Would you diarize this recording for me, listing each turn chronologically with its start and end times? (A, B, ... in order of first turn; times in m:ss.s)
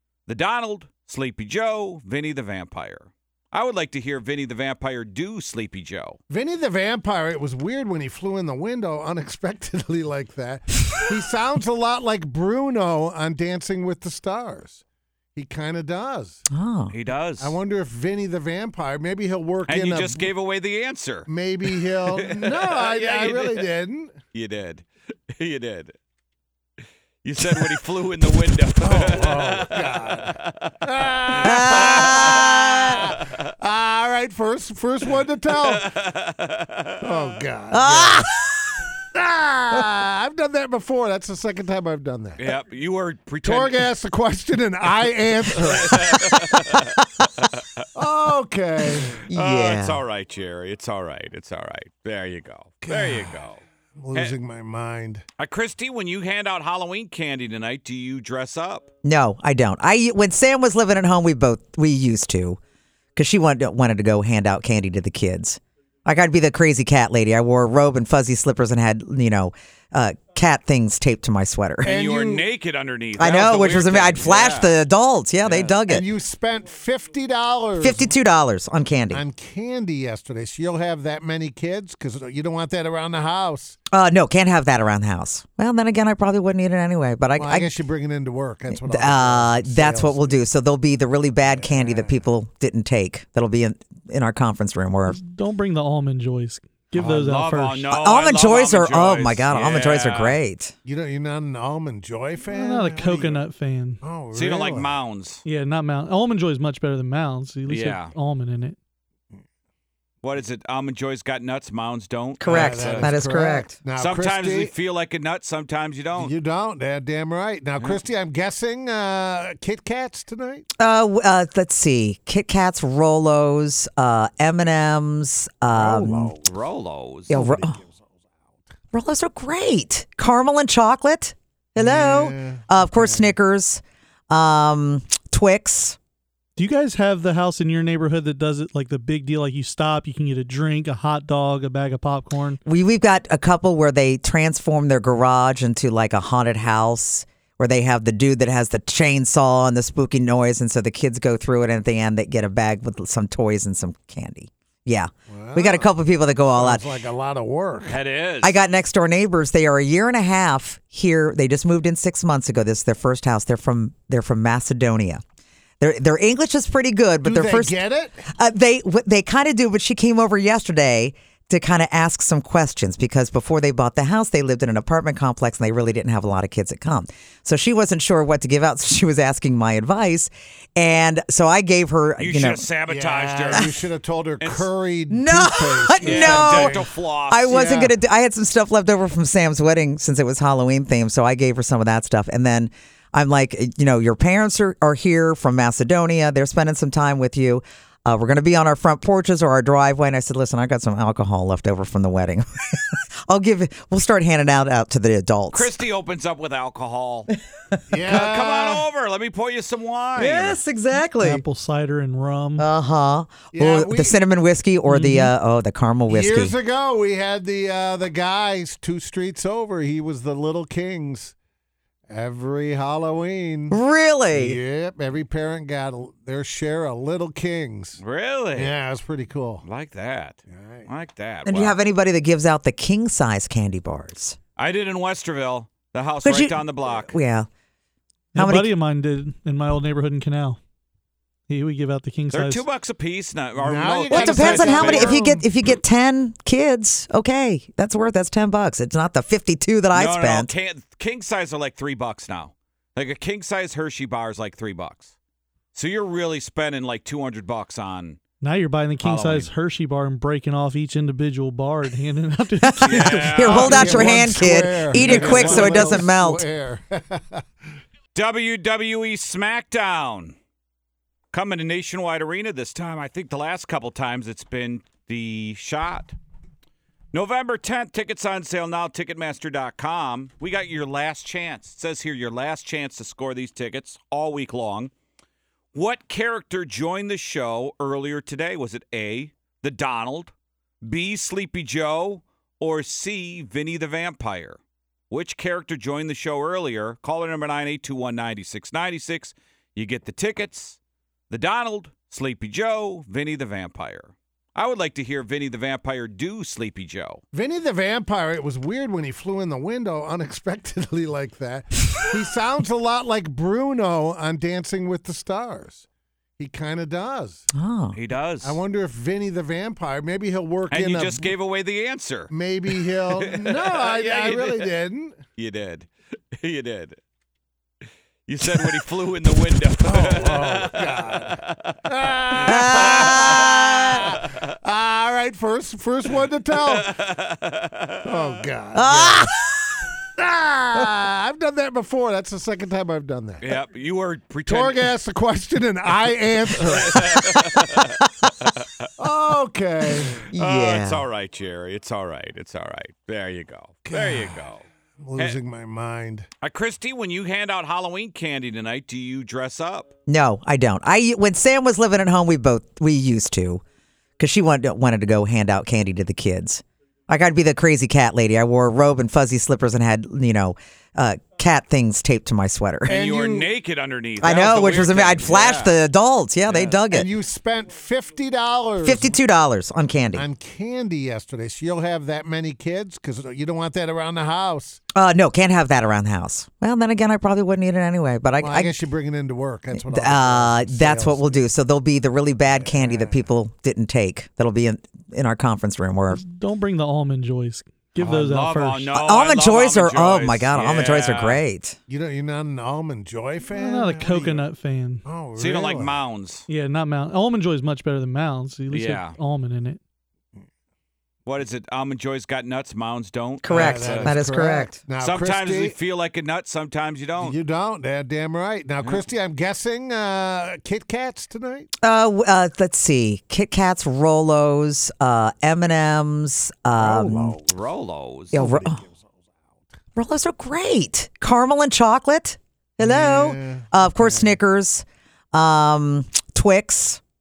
0:00.3-0:06.2 A
0:06.3-0:14.8 B
0:15.3-0:16.4 B
0:16.5-0:16.9 C
0:16.9-0:17.6 A
0:17.4-0:20.3 B
0:19.6-0:23.7 A
0:21.3-0:24.1 B
0:24.3-0:25.9 A
0:27.2-0:30.8 A
0:28.8-0:35.8 B
0:31.3-0:32.6 A
0:31.4-0:32.9 C
0:33.1-0:33.4 A
0:35.5-0:37.4 A
0:37.0-0:38.3 B
0:37.7-0:38.3 C
0:39.1-0:42.4 B
0:42.4-0:43.8 A
0:43.4-0:46.5 B
0:45.6-0:47.8 A
0:48.0-0:49.2 B
0:49.2-0:50.0 C
0:49.3-0:53.6 A
0:52.8-0:53.4 B
0:54.0-0:55.2 B
0:55.4-0:58.9 A
0:59.0-1:02.6 C
1:03.2-1:11.9 C
1:11.8-1:14.8 A
1:11.8-1:12.5 B
1:13.2-1:16.1 C
1:15.4-1:15.8 A
1:15.9-1:18.1 B
1:17.8-1:19.2 C
1:19.1-1:23.8 B
1:23.9-1:27.7 C
1:27.4-1:30.4 B
1:28.8-1:35.2 C
1:31.4-1:32.2 B
1:35.1-1:37.8 D
1:37.0-1:37.2 B
1:37.0-1:40.4 A
1:37.9-1:40.7 C
1:40.8-1:43.4 B
1:42.4-1:44.0 D
1:44.0-1:44.9 B
1:44.3-1:45.4 A
1:45.4-1:48.8 D
1:47.7-1:48.1 A
1:50.2-1:53.1 A
1:52.4-1:53.7 C
1:52.4-1:54.7 B
1:54.0-1:56.3 A
1:56.2-2:00.7 B
2:00.8-2:06.3 C
2:05.7-2:06.5 B
2:06.4-2:07.4 A
2:07.3-2:07.8 C
2:07.3-2:08.1 B
2:08.9-2:16.0 C
2:11.8-2:13.3 B
2:16.6-2:22.6 D
2:22.6-2:36.8 C
2:35.3-2:35.9 B
2:36.5-2:38.0 B
2:37.8-2:38.6 A
2:38.4-2:45.2 C
2:45.8-2:47.8 C
2:47.2-2:48.2 B
2:48.3-3:02.6 C
3:02.2-3:03.8 A
3:02.9-3:06.9 B
3:04.4-3:04.7 A
3:05.1-3:06.8 C
3:06.0-3:07.6 A
3:07.3-3:25.7 C
3:07.5-3:07.9 B
3:25.5-3:27.3 A
3:27.9-3:28.8 B
3:28.1-3:30.6 A
3:30.2-3:31.4 C
3:31.2-3:32.7 D
3:32.6-3:36.5 C
3:33.5-3:34.2 B
3:34.9-3:35.3 D
3:36.1-3:41.3 B
3:42.1-3:43.8 B
3:43.7-3:44.6 C
3:44.3-3:48.0 B
3:48.0-3:48.7 A
3:48.5-3:49.6 B
3:49.6-3:51.8 A
3:50.5-3:50.9 B
3:51.4-3:54.4 C
3:54.6-3:57.1 A
3:56.2-3:57.5 C
3:58.3-4:00.6 D
3:58.4-3:58.7 C
4:01.5-4:02.6 D
4:02.3-4:05.2 A
4:03.6-4:05.5 B
4:04.1-4:10.5 C
4:09.9-4:15.1 A
4:15.7-4:18.2 A
4:18.4-4:24.2 D
4:19.0-4:19.5 A
4:22.6-4:26.4 C
4:22.8-4:23.8 A
4:23.4-4:27.4 B
4:24.9-4:26.0 D
4:28.1-4:30.4 A
4:31.3-4:36.1 A
4:37.1-4:44.9 A
4:45.7-5:00.8 A
5:01.3-5:07.2 A
5:07.3-5:15.8 B
5:16.4-5:17.4 B
5:17.5-5:18.0 C
5:17.9-5:18.6 A
5:18.4-5:21.3 B
5:20.7-5:24.7 A
5:22.3-5:25.2 B
5:25.4-5:27.0 A
5:28.3-5:31.8 A
5:29.8-5:33.5 B
5:32.3-5:34.5 A
5:32.4-5:34.0 C
5:34.0-5:36.9 B
5:36.6-5:38.4 A
5:38.0-5:39.3 B
5:38.8-5:39.3 C
5:40.2-5:43.4 B
5:43.4-5:44.9 A
5:44.5-5:47.6 B
5:46.6-5:48.9 A
5:49.0-5:50.2 B
5:50.3-5:51.0 C
5:50.3-5:54.6 A
5:53.8-5:54.4 B
5:55.0-5:56.3 B
5:56.4-5:59.9 A
6:00.1-6:03.6 C
6:04.2-6:13.0 C
6:12.9-6:15.8 A
6:12.9-6:13.5 B
6:14.2-6:17.1 C
6:16.5-6:16.8 A
6:16.9-6:19.2 B
6:18.8-6:20.2 C
6:20.1-6:24.8 B
6:24.9-6:28.8 C
6:28.4-6:31.4 B
6:29.7-6:36.2 C
6:32.5-6:33.3 B
6:36.1-6:39.0 D
6:38.0-6:41.4 A
6:38.9-6:41.8 C
6:41.9-6:44.4 B
6:43.5-6:45.0 D
6:45.0-6:46.0 B
6:45.4-6:46.4 A
6:46.5-6:49.8 D
6:48.7-6:49.2 A
6:51.2-6:54.2 A
6:53.4-6:54.8 C
6:53.5-6:55.8 B
6:55.0-6:57.4 A
6:57.2-7:01.7 B
7:01.8-7:07.4 C
7:06.8-7:07.6 B
7:07.5-7:08.4 A
7:08.3-7:08.8 C
7:08.3-7:09.0 B
7:10.0-7:17.0 C
7:12.8-7:14.4 B